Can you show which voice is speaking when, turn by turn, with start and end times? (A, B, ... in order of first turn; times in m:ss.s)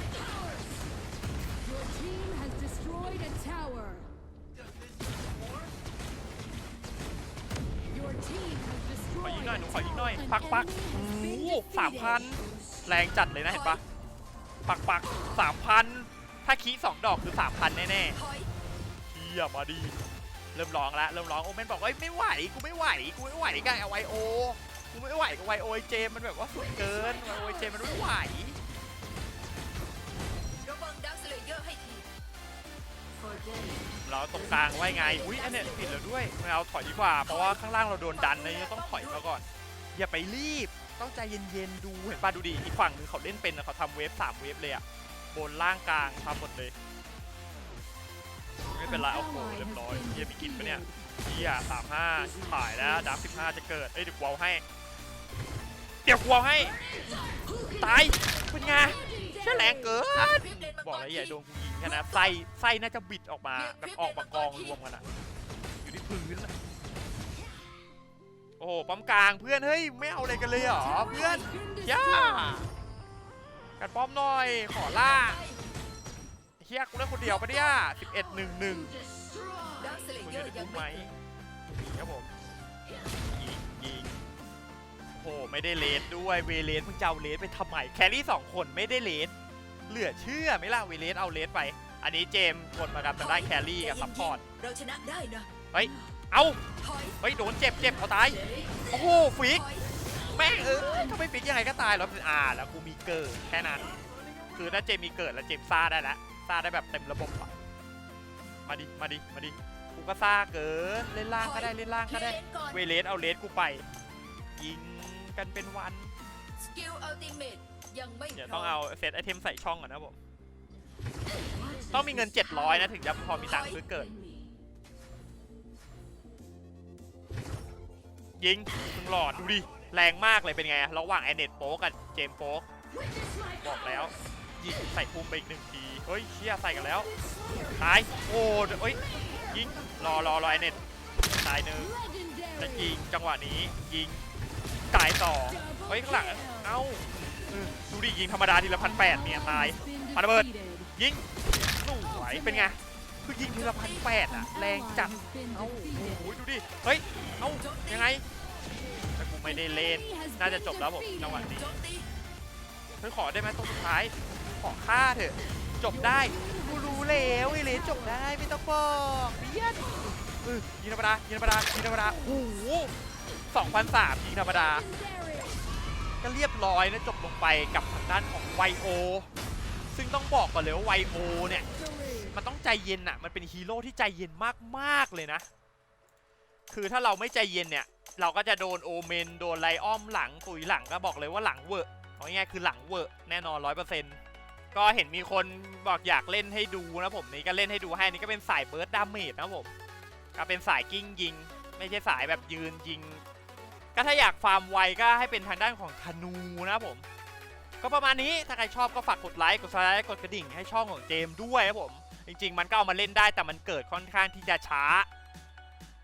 0:01.7-0:04.0 A
0:08.0-0:09.2 A
0:09.2-0:13.8 B
0:14.6-0:18.2 B
0:19.1-0:19.9 B
0:20.5-0:28.6 B
0:30.6-0:32.1 C
0:33.2-0:33.8 C
0:34.0-0:46.7 B
0:34.7-0:35.9 C
0:38.1-0:39.2 C
0:48.7-0:54.6 B
0:56.0-0:56.8 B
0:57.8-1:05.0 B
1:00.4-1:01.3 C
1:03.8-1:04.6 C
1:05.8-1:06.5 B
1:08.6-1:12.7 B
1:13.8-1:15.4 B
1:16.6-1:18.9 B
1:19.3-1:21.0 C
1:20.1-1:21.1 B
1:21.7-1:22.3 B
1:23.3-1:24.2 B
1:25.1-1:29.3 B
1:29.9-1:34.4 B
1:33.2-1:35.6 C
1:35.7-1:36.6 B
1:36.8-1:37.1 C
1:37.2-1:44.0 B
1:44.5-1:47.5 B
1:48.6-1:53.8 B
1:52.1-1:52.8 C
1:54.6-1:56.1 B
1:56.6-1:58.8 C
1:58.3-2:00.2 B
2:01.9-2:04.1 B
2:08.4-2:12.7 B
2:13.6-2:17.1 B
2:17.7-2:22.0 B
2:22.6-2:24.2 B
2:24.9-2:38.2 B
2:39.2-2:41.8 B
2:41.6-2:42.0 C
2:43.0-2:49.8 B
2:50.4-2:52.9 B
2:53.5-2:54.9 B
2:56.2-2:59.3 B
2:59.9-3:01.7 B
3:02.2-3:05.4 B
3:06.7-3:14.2 B
3:14.7-3:19.7 B
3:20.3-3:23.2 B
3:23.9-3:27.0 B
3:27.8-3:35.1 B